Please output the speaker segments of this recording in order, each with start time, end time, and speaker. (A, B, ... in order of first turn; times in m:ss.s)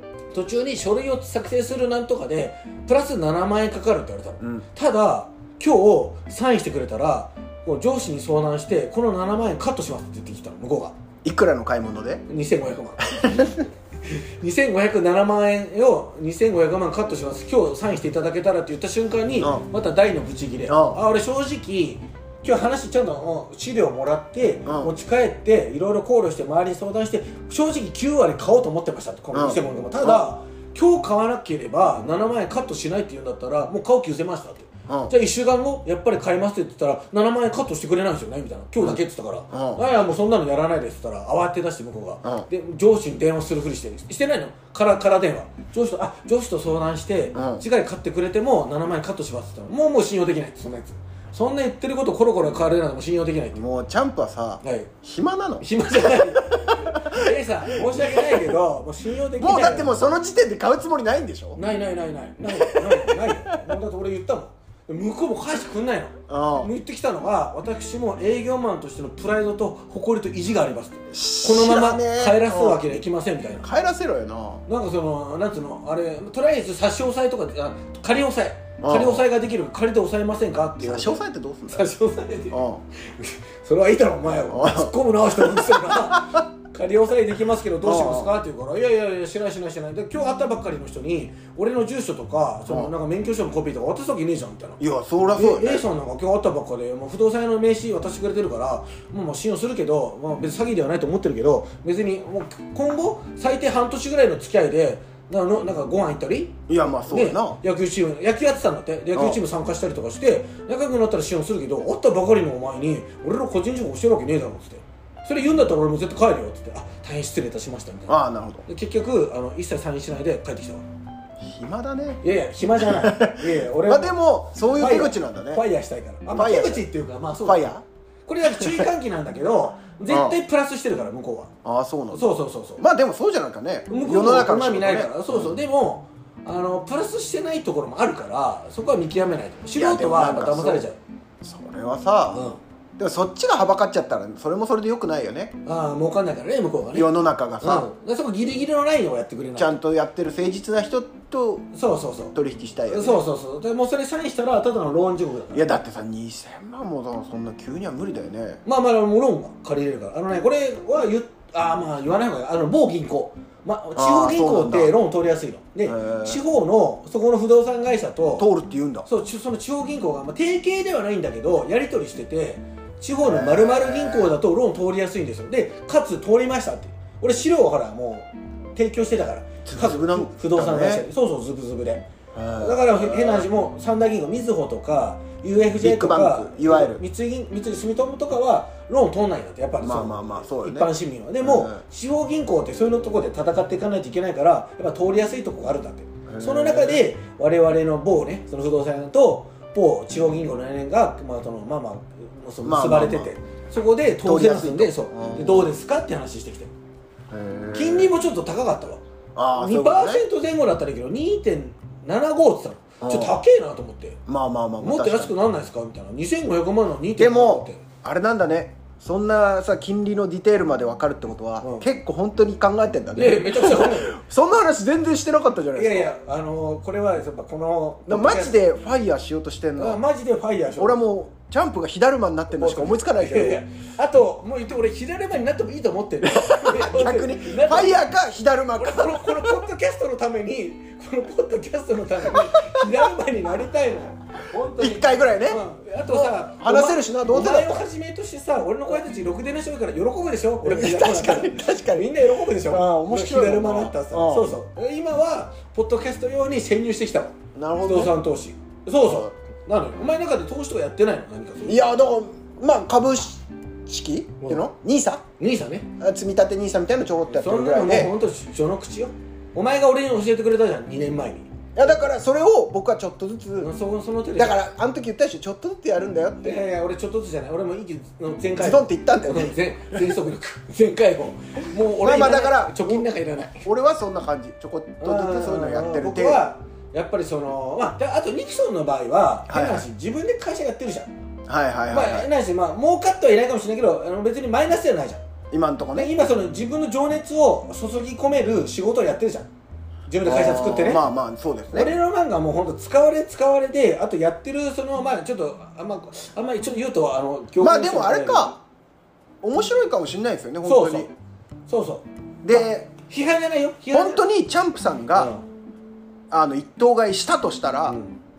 0:00.3-0:10.9 A
0:11.2-0:12.2 B
0:12.3-0:53.6 A
0:13.1-0:13.6 B
0:19.4-0:19.6 B
0:20.7-0:21.0 B
0:24.6-0:24.9 B
0:29.3-0:30.2 B
0:39.5-0:39.8 B
0:47.3-0:47.6 B
0:53.5-0:58.5 B
0:54.6-0:54.9 A
0:55.6-0:59.9 A
0:59.4-1:01.6 B
1:01.6-1:13.6 A
1:02.5-1:03.4 B
1:06.3-1:06.7 B
1:11.1-1:12.8 B
1:13.6-1:14.6 B
1:14.7-1:34.8 A
1:18.8-1:19.2 B
1:20.8-1:21.9 B
1:22.5-1:22.8 B
1:24.5-1:26.4 B
1:27.8-1:28.3 B
1:32.7-1:32.9 B
1:34.8-1:35.8 B
1:35.3-1:58.1 A
1:46.7-1:47.6 B
1:49.1-1:49.4 B
1:58.1-1:58.6 B
1:58.7-2:00.8 A
2:01.4-2:02.2 B
2:02.2-2:07.7 A
2:02.8-2:05.6 B
2:06.3-2:06.9 B
2:07.4-2:07.8 B
2:08.2-2:11.5 A
2:08.4-2:08.9 B
2:10.1-2:10.4 B
2:11.6-2:15.6 B
2:12.1-2:12.8 A
2:13.9-2:21.0 A
2:19.7-2:20.8 B
2:21.4-2:22.4 B
2:22.3-2:22.6 A
2:23.0-2:25.6 B
2:25.6-2:29.8 A
2:26.9-2:27.9 B
2:29.6-2:31.7 B
2:31.7-2:32.3 A
2:32.3-2:33.2 B
2:32.9-2:35.7 A
2:35.5-2:38.6 B
2:38.6-2:48.5 A
2:44.0-2:44.9 B
2:45.8-2:46.4 B
2:48.4-2:49.1 B
2:49.1-3:02.1 A
2:53.2-2:54.3 B
2:59.6-3:01.0 B
3:02.3-3:03.5 B
3:02.6-3:26.7 A
3:05.8-3:07.0 B
3:09.8-3:11.8 B
3:16.3-3:17.0 B
3:22.6-3:23.3 B
3:24.2-3:25.7 B
3:27.3-3:28.1 B
3:27.7-3:29.0 A
3:29.4-3:30.2 B
3:29.5-3:34.2 A
3:33.0-3:33.4 B
3:34.3-3:35.3 B
3:34.8-3:37.8 A
3:37.2-3:46.1 B
3:41.6-3:41.9 A
3:43.2-3:44.2 A
3:45.7-3:48.6 A
3:48.1-3:50.0 B
3:49.8-3:51.0 A
3:50.8-3:53.6 B
3:52.6-3:58.0 A
3:56.2-3:59.5 B
3:58.8-4:21.8 A
4:02.3-4:02.8 B
4:04.8-4:07.8 B
4:10.6-4:14.5 B
4:17.5-4:18.2 B
4:19.0-4:19.3 B
4:21.6-4:25.2 B
4:25.4-4:25.9 A
4:26.0-4:28.1 B
4:27.3-4:31.6 A
4:31.7-4:33.7 B
4:33.6-4:34.6 A
4:34.4-4:36.6 B
4:36.4-4:43.7 A
4:38.6-4:40.1 B
4:42.0-4:43.1 B
4:43.6-4:46.4 B
4:45.0-4:51.1 A
4:49.5-4:49.8 B
4:51.5-4:52.3 B
4:51.9-4:55.2 A
4:55.5-4:56.1 B
4:55.9-4:59.5 A
5:00.1-5:01.0 A
5:00.2-5:01.9 B
5:01.7-5:08.6 A
5:07.6-5:08.6 B
5:09.4-5:11.1 B
5:10.6-5:11.1 A
5:11.7-5:14.2 A
5:12.4-5:12.9 B
5:13.9-5:15.3 B
5:15.1-5:15.4 A
5:16.3-5:18.0 B
5:17.9-5:18.1 A